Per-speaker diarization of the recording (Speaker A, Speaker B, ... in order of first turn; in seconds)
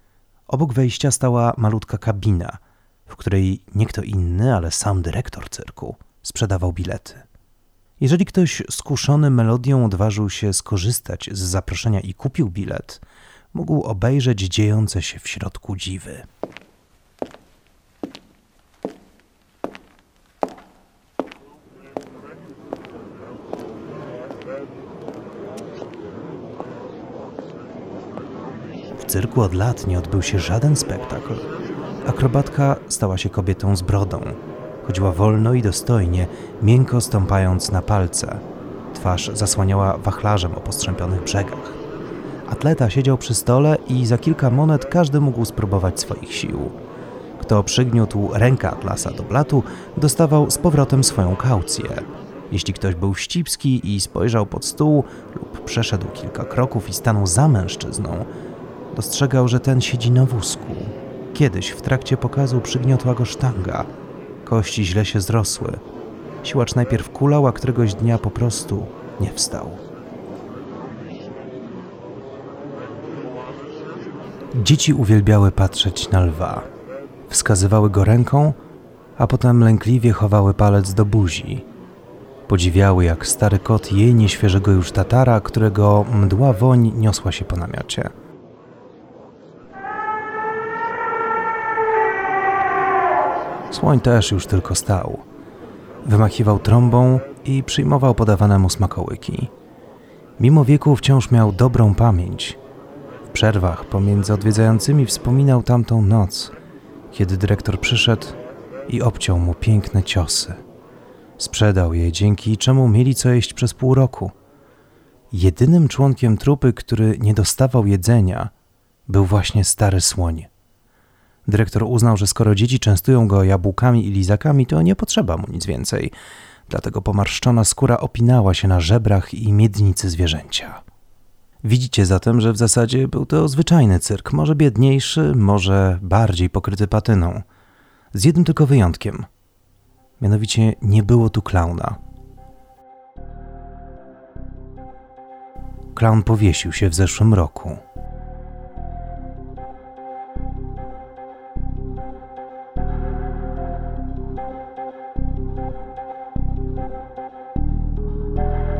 Speaker A: 0.5-7.2, 8.0-13.0, 13.5-16.3, 29.0-31.5, 32.0-41.8, 42.5-46.8, 47.4-58.3, 58.9-63.9, 64.4-65.8, 66.4-69.8, 74.5-76.7, 77.3-78.6, 79.2-81.7, 82.5-88.1, 93.7-95.2, 96.0-99.5, 100.4-102.6, 103.3-106.5, 107.1-110.6, 111.4-114.3, 115.3-118.5, 119.1-120.5, 121.5-126.1, 126.7-130.8, 131.6-137.4, 138.1-139.3, 140.2-142.0, 145.9-147.8